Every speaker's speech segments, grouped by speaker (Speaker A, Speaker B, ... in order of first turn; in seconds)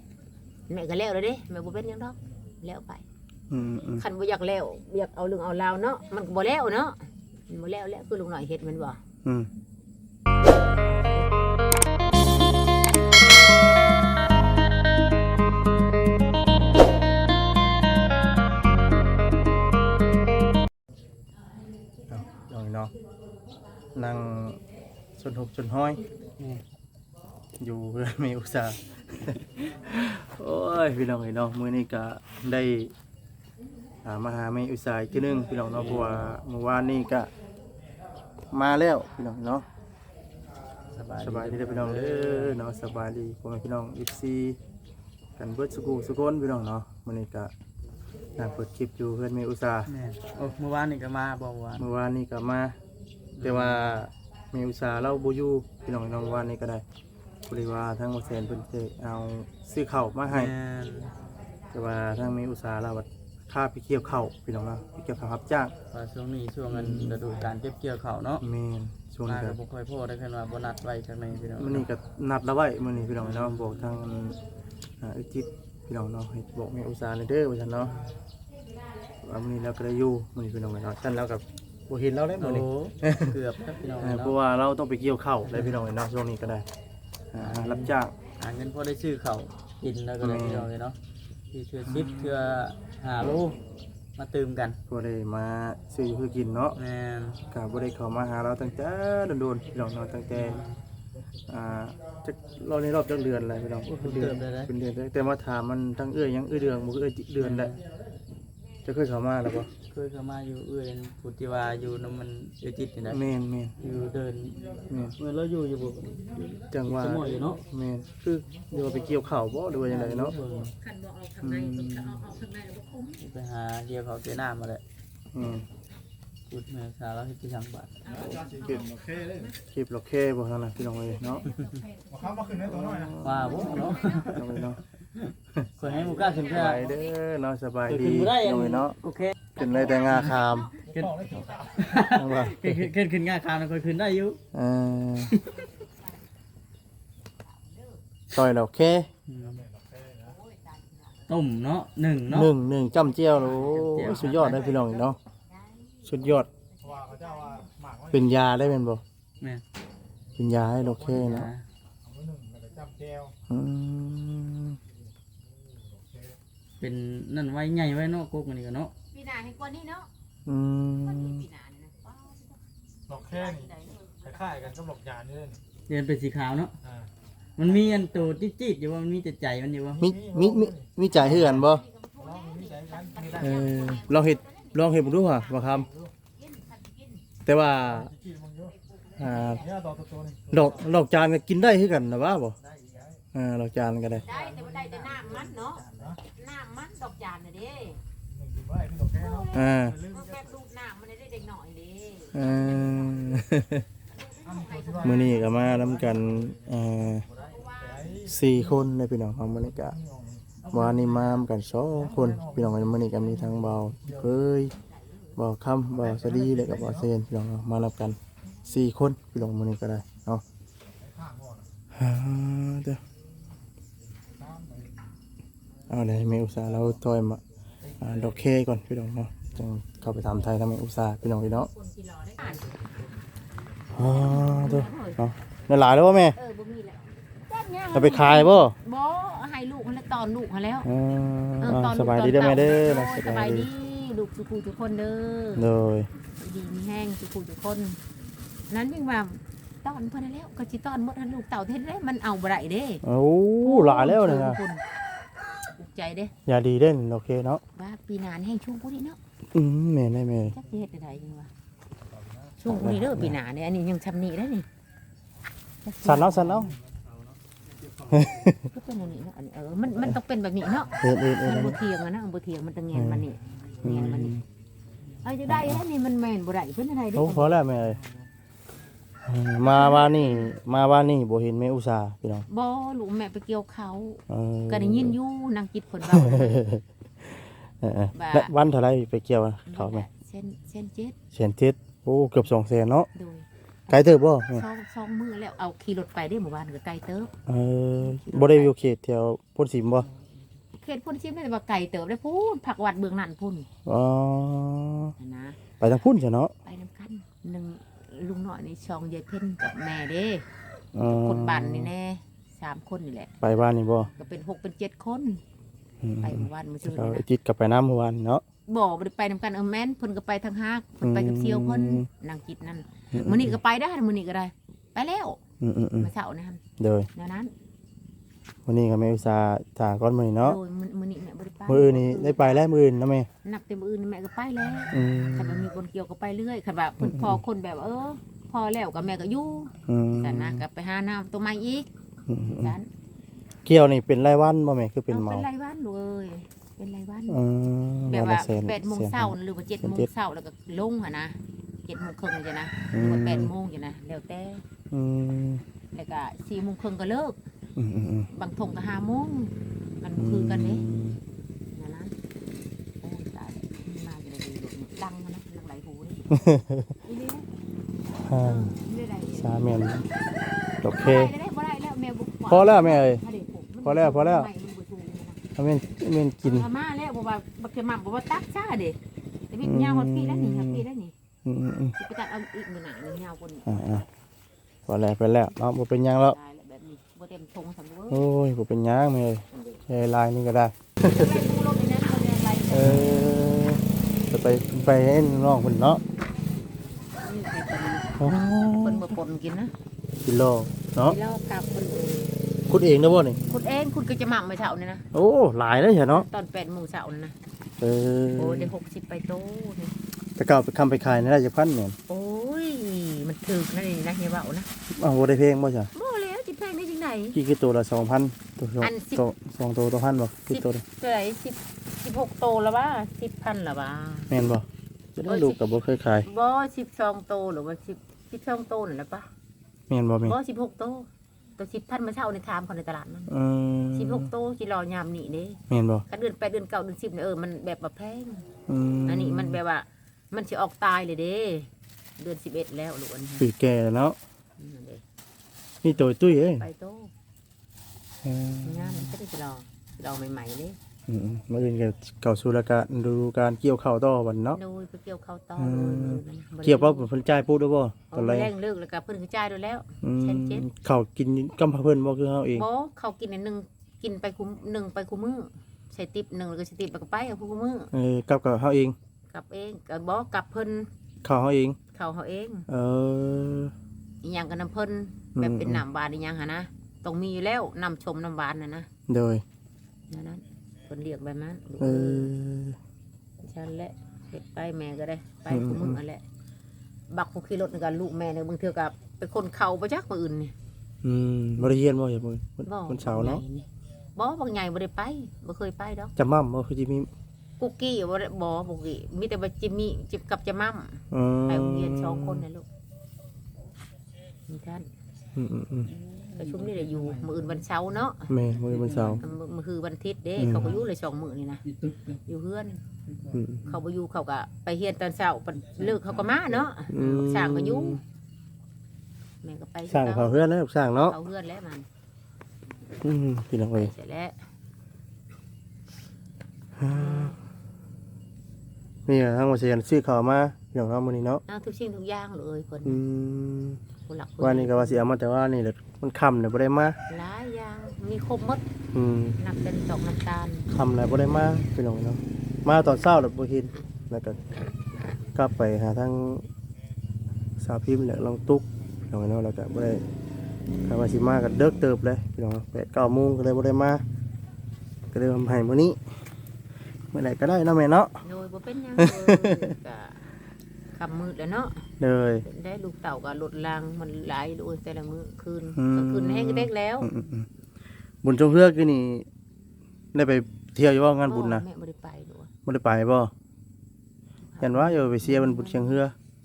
Speaker A: 0.7-3.0, 4.0-9.0, 120.8-123.2, 128.1-129.5, 150.3-151.0, 153.7-154.4, 157.2-157.6, 169.1-170.1, 171.0-174.5, 182.0-184.7, 186.4-187.2, 189.2-189.7, 194.2-198.0, 199.1-203.4, 204.4-205.7, 207.6-208.2, 231.7-232.8, 234.0-235.2, 236.3-240.9, 241.6-245.7, 246.4-248.0, 248.7-253.0, 253.6-254.8, 255.8-256.3, 257.8-259.2, 260.5-261.5, 262.6-264.7, 265.9-266.7, 268.7-274.4, 275.2-277.6, 279.6-280.5, 282.5-286.6, 288.1-288.6, 289.7-291.2, 293.1-297.3, 298.0-298.7, 300.7-303.7, 305.2-305.6, 306.6-310.5, 311.1-313.3, 314.2-315.4, 316.2-317.3, 318.7-325.4, 326.0-326.6, 327.1-327.5, 330.4-332.7, 333.4-341.9, 342.5-342.9, 345.1-347.4, 348.1-354.6, 355.9-357.4, 358.3-360.9, 361.7-362.1, 363.0-366.2, 367.0-367.5, 368.3-369.7, 370.9-375.4, 376.4-379.0, 379.5-381.1, 382.0-384.1, 386.3-388.2, 391.0-393.1, 397.2-399.7, 401.0-402.5, 403.5-405.1, 406.1-407.4, 408.4-410.0, 412.1-414.7, 415.9-417.4, 418.8-419.2, 420.5-424.3, 425.2-425.6, 426.2-429.3, 430.2-433.3, 433.9-438.5, 439.1-443.5, 444.6-445.0, 445.9-447.1, 448.6-450.8, 454.5-457.1, 458.1-460.7, 462.5-467.9, 469.3-470.9, 471.9-472.7, 474.2-478.9, 480.1-482.3, 483.4-486.2, 487.1-490.5, 492.7-496.1, 497.6-502.7, 504.5-504.9, 506.3-508.3, 509.2-511.6, 512.2-513.0, 513.6-518.0, 519.4-520.4, 521.0-521.9, 523.8-524.4, 526.9-527.4, 531.5-533.0, 534.1-535.1, 537.1-538.7, 539.4-540.7, 558.2-560.2, 560.9-561.9, 562.4-567.1, 571.3-572.5, 574.5-576.0
Speaker B: 3.5-4.0, 9.2-9.5, 22.1-22.9, 23.9-24.6, 25.2-26.0, 27.6-32.9, 34.0-37.3, 38.5-39.6, 41.2-44.6, 45.4-47.5, 48.4-49.9, 51.8-52.8, 53.4-56.8, 57.5-60.5, 61.7-65.7, 66.7-67.2, 68.4-69.6, 71.5-74.4, 75.0-78.0, 79.2-83.4, 84.0-86.7, 87.3-88.2, 90.2-90.7, 91.8-92.4, 94.9-96.8, 97.5-100.6, 101.5-107.8, 108.8-109.7, 113.1-113.8, 114.9-115.2, 116.7-120.4, 121.4-122.2, 125.3-125.7, 129.6-131.4, 132.5-134.8, 136.4-139.0, 139.6-140.8, 142.1-142.8, 144.5-145.3, 148.3-149.1, 152.3-155.2, 156.0-156.5, 158.1-159.0, 160.4-161.5, 163.5-164.8, 170.5-171.5, 180.0-181.9, 183.3-185.9, 187.4-188.1, 189.2-189.7, 190.5-192.6, 193.3-194.3, 199.5-200.1, 202.3-203.9, 205.0-207.3, 208.2-210.0, 210.7-214.8, 215.4-220.4, 221.9-223.0, 225.9-227.4, 228.0-231.7, 233.9-236.4, 237.9-238.8, 240.8-243.7, 245.6-246.1, 253.0-254.6, 256.5-257.6, 259.5-260.6, 262.6-263.4, 266.0-266.7, 268.1-268.7, 271.0-271.8, 272.9-273.2, 273.8-274.4, 275.5-275.8, 277.1-278.0, 279.2-282.5, 284.3-285.2, 286.1-290.1, 291.3-293.1, 293.9-294.6, 297.5-300.1, 303.9-305.1, 305.8-306.5, 310.9-311.9, 313.4-314.1, 316.0-318.4, 321.0-322.1, 323.1-323.6, 325.6-326.1, 326.8-327.1, 328.7-330.6, 331.7-333.3, 334.9-335.7, 337.0-337.4, 339.9-340.6, 342.3-342.8, 343.6-345.5, 347.3-350.1, 352.9-353.5, 354.9-355.6, 357.8-358.3, 360.2-361.2, 366.3-366.9, 368.2-368.8, 369.4-370.1, 370.8-371.3, 372.5-373.2, 373.8-374.5, 375.6-376.7, 379.6-380.8, 381.4-382.0, 383.7-384.1, 384.9-386.4, 388.1-391.5, 392.7-396.0, 398.2-399.2, 400.2-401.2, 402.7-403.4, 405.1-406.3, 407.8-408.7, 410.4-412.0, 414.9-415.9, 417.3-420.8, 424.3-426.3, 429.9-430.4, 433.3-434.3, 435.7-436.1, 438.7-439.6, 443.4-444.2, 445.8-446.7, 448.2-449.1, 451.1-454.6, 455.6-458.5, 460.0-462.7, 467.9-469.0, 471.2-471.8, 472.7-473.7, 475.4-475.9, 479.1-479.4, 481.8-482.8, 485.5-486.0, 491.0-493.4, 496.2-497.1, 501.1-502.4, 505.4-505.9, 508.3-509.3, 510.4-510.8, 513.3-513.7, 516.9-518.0, 519.9-521.2, 523.0-523.9, 526.8-527.4, 529.1-531.4, 532.9-533.8, 534.4-537.0, 538.9-539.4, 540.7-544.4, 545.4-546.5, 547.6-550.0, 550.9-554.0, 555.1-556.0, 557.1-558.2, 559.0-559.8, 562.0-562.5, 565.8-567.5, 568.2-569.3, 570.1-571.7, 572.6-573.3, 574.6-576.1
Speaker C: 35.7-36.3, 40.9-42.6, 49.9-51.9, 53.4-54.0, 60.3-61.1, 65.9-68.4, 69.2-71.9, 73.2-73.6, 82.4-84.4, 85.5-85.8, 87.4-91.0, 91.5-93.6, 94.2-94.8, 96.8-97.4, 100.3-100.8, 103.8-104.7, 107.4-107.8, 109.9-113.2, 113.8-117.6, 119.8-120.7, 123.2-124.8, 126.5-128.3, 133.2-136.9, 137.9-144.4, 149.3-149.7, 151.3-152.5, 153.5-154.7, 161.1-161.7, 166.8-168.9, 175.9-176.8, 177.6-180.1, 181.2-181.6
Speaker D: 128.4-129.1, 132.2-133.1, 149.7-150.2, 157.0-158.1, 162.1-163.3, 174.4-175.6, 182.5-183.3, 188.3-188.6, 189.8-190.5, 198.5-199.1, 204.6-204.9